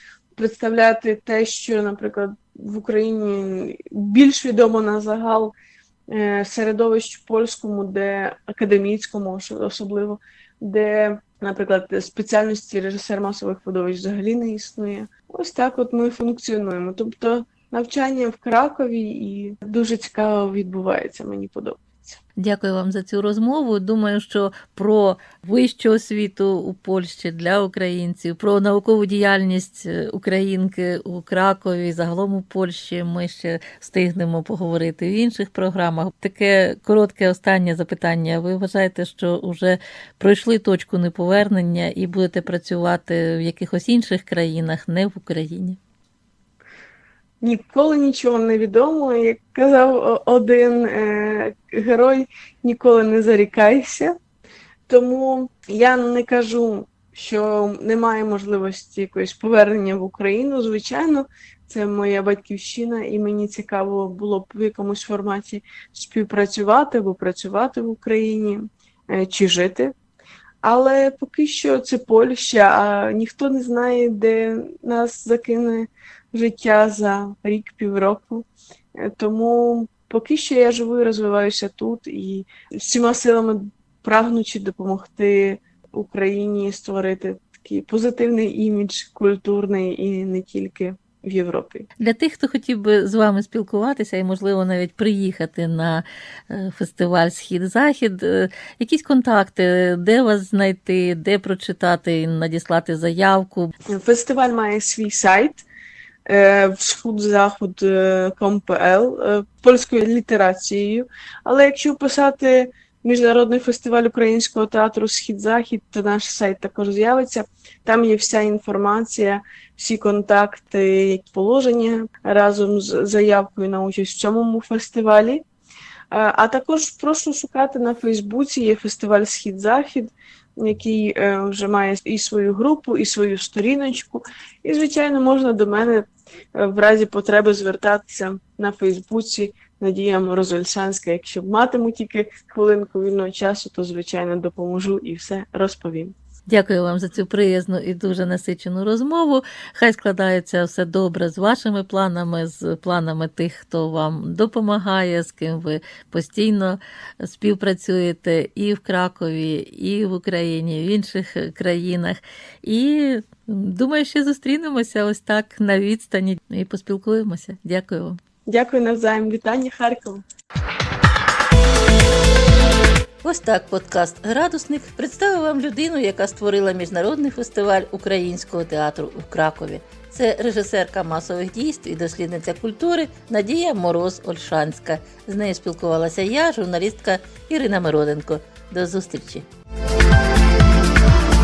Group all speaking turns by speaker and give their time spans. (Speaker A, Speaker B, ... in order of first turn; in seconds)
Speaker A: 0.3-5.5, 6.1-22.2, 47.4-54.1, 54.9-70.0, 70.6-91.9, 103.9-105.7, 106.3-125.4, 126.1-146.2, 168.5-170.2
Speaker B: 22.4-45.8, 92.0-103.7, 146.5-168.2, 173.2-189.5